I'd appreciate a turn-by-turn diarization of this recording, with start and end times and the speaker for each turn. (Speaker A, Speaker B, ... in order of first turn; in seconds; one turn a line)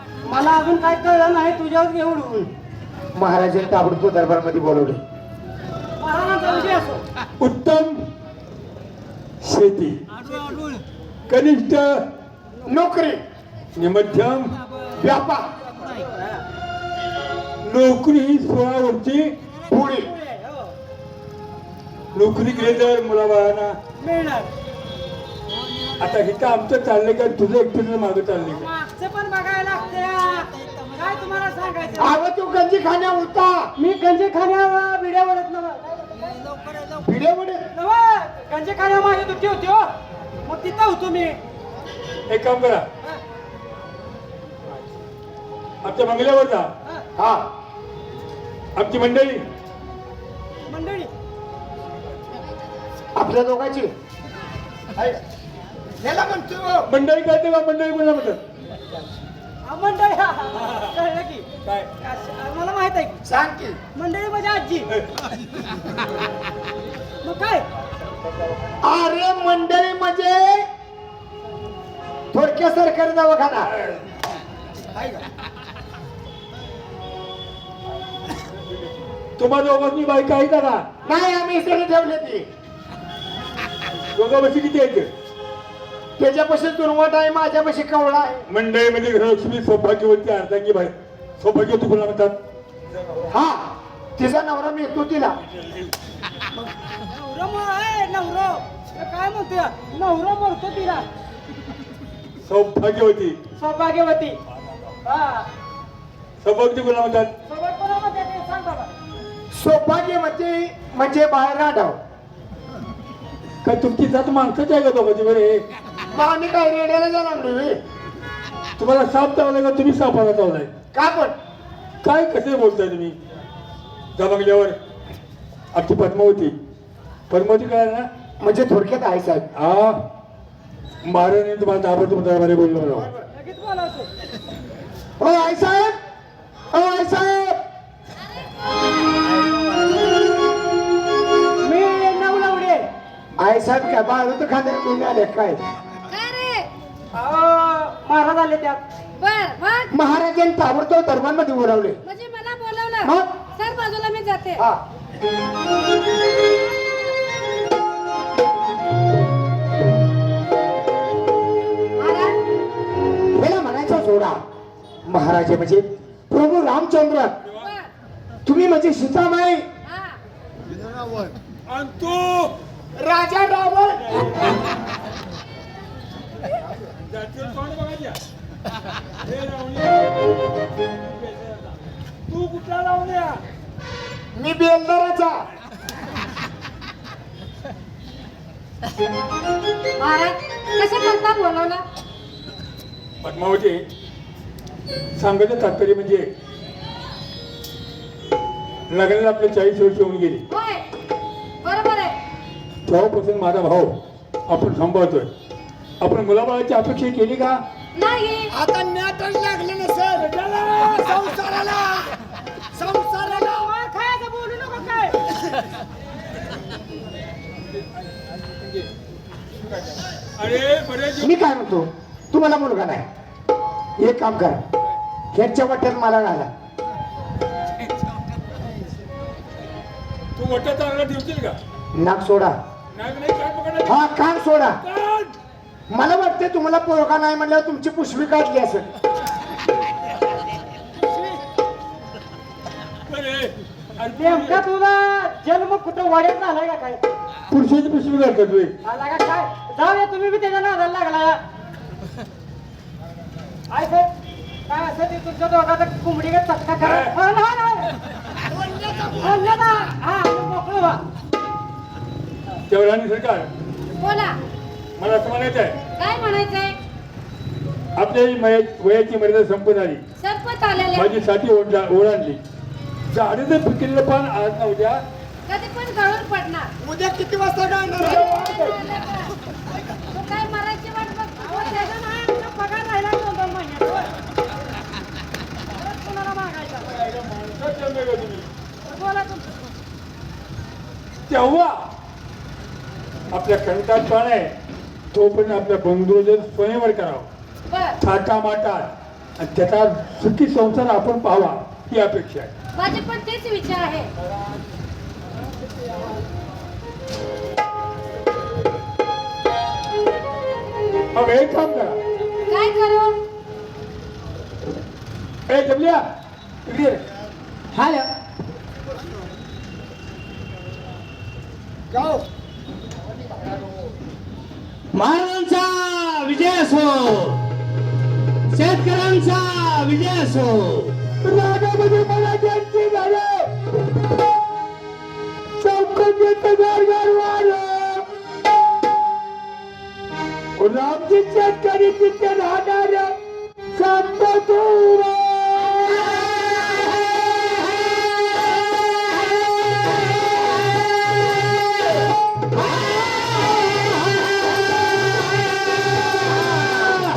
Speaker A: 0.3-2.5
Speaker B: 3.1-5.0
Speaker A: 6.0-7.0
Speaker C: 7.4-8.0
Speaker C: 9.4-10.0
Speaker C: 11.3-12.0
Speaker B: 12.7-13.2
Speaker C: 13.8-14.5
Speaker B: 15.0-15.5
Speaker A: 15.8-16.4
Speaker C: 17.6-19.3
Speaker B: 19.7-20.1
Speaker A: 20.0-20.7
Speaker C: 22.1-23.8
Speaker A: 24.0-24.5
Speaker C: 26.0-28.7
Speaker A: 28.6-32.2
Speaker B: 32.0-33.7
Speaker A: 33.8-36.4
Speaker B: 36.9-37.7
Speaker A: 37.7-39.9
Speaker A: 40.5-41.4
Speaker C: 42.3-42.9
Speaker C: 45.8-46.7
Speaker B: 47.2-47.4
Speaker C: 48.8-49.4
Speaker A: 50.7-51.1
Speaker B: 53.1-53.9
Speaker B: 56.0-56.9
Speaker C: 56.9-58.4
Speaker A: 59.7-61.5
Speaker A: 62.0-63.2
Speaker B: 63.2-63.8
Speaker A: 64.0-64.9
Speaker A: 67.2-67.7
Speaker B: 68.8-70.7
Speaker B: 72.3-73.7
Speaker C: 79.4-80.9
Speaker B: 81.0-82.5
Speaker C: 84.1-85.1
Speaker B: 86.2-88.4
Speaker C: 88.5-92.4
Speaker B: 93.3-95.4
Speaker A: 97.1-101.0
Speaker C: 102.4-103.4
Speaker A: 103.6-104.4
Speaker A: 105.0-105.5
Speaker C: 106.4-107.3
Speaker A: 107.5-108.9
Speaker B: 109.5-112.0
Speaker C: 113.6-115.6
Speaker B: 116.1-117.8
Speaker C: 118.8-120.7
Speaker B: 120.9-121.3
Speaker C: 122.0-123.2
Speaker C: 124.2-124.8
Speaker C: 125.7-126.6
Speaker C: 127.3-128.1
Speaker B: 128.4-129.5
Speaker C: 129.6-130.0
Speaker C: 131.0-133.1
Speaker A: 133.2-134.1
Speaker B: 135.2-136.0
Speaker B: 136.7-137.6
Speaker A: 141.6-142.9
Speaker B: 143.4-145.6
Speaker D: 146.1-146.7
Speaker A: 147.1-148.8
Speaker D: 149.2-149.9
Speaker B: 149.9-152.0
Speaker D: 152.1-154.6
Speaker B: 153.0-153.3
Speaker D: 156.7-157.1
Speaker D: 162.0-162.4
Speaker B: 163.3-164.4
Speaker B: 165.1-167.3
Speaker C: 167.4-167.7
Speaker B: 168.5-169.7
Speaker D: 169.9-170.2
Speaker C: 171.7-172.5
Speaker B: 173.0-174.2
Speaker C: 174.1-174.6
Speaker C: 177.1-178.2
Speaker C: 179.2-180.2
Speaker C: 181.0-181.7
Speaker C: 182.3-183.4
Speaker B: 184.3-185.4
Speaker D: 190.0-191.8
Speaker C: 193.2-193.8
Speaker C: 195.2-196.3
Speaker C: 198.9-200.4
Speaker D: 200.5-200.8
Speaker D: 201.6-202.2
Speaker C: 202.9-204.0
Speaker C: 204.5-205.3
Speaker C: 206.0-207.6
Speaker D: 207.9-208.5
Speaker B: 208.5-210.3
Speaker C: 210.2-211.2
Speaker B: 210.8-212.1
Speaker B: 212.7-213.7
Speaker A: 213.2-215.2
Speaker C: 220.4-221.3
Speaker B: 221.2-223.1
Speaker B: 224.0-224.6
Speaker B: 225.3-226.5
Speaker C: 230.4-231.6
Speaker B: 231.9-232.6
Speaker C: 232.9-234.0
Speaker B: 233.9-234.8
Speaker C: 234.8-235.3
Speaker B: 235.9-238.9
Speaker C: 243.1-244.6
Speaker A: 244.2-247.0
Speaker C: 247.5-248.8
Speaker A: 248.8-251.4
Speaker A: 253.7-254.1
Speaker A: 254.7-257.9
Speaker C: 256.8-257.1
Speaker B: 258.8-259.1
Speaker A: 259.1-261.0
Speaker C: 262.7-263.5
Speaker D: 264.0-264.4
Speaker C: 265.0-265.8
Speaker D: 266.0-266.8
Speaker C: 268.0-270.0
Speaker D: 270.2-271.2
Speaker C: 270.9-272.4
Speaker C: 273.1-275.0
Speaker D: 275.5-276.7
Speaker B: 276.8-278.3
Speaker C: 278.0-278.8
Speaker D: 278.1-279.3
Speaker D: 279.9-281.9
Speaker A: 281.4-284.1
Speaker A: 285.8-286.9
Speaker C: 286.9-288.5
Speaker A: 288.9-289.4
Speaker C: 291.3-291.9
Speaker C: 293.3-294.5
Speaker C: 295.1-297.3
Speaker D: 297.7-298.0
Speaker C: 298.0-302.5
Speaker D: 302.8-304.1
Speaker C: 311.1-312.0
Speaker D: 312.5-313.2
Speaker C: 315.5-316.1
Speaker C: 316.7-317.0
Speaker E: 317.7-318.1
Speaker B: 321.9-322.2
Speaker E: 324.9-327.4
Speaker E: 328.5-330.9
Speaker C: 331.2-333.5
Speaker C: 335.6-338.1
Speaker C: 340.6-343.1
Speaker C: 343.8-345.8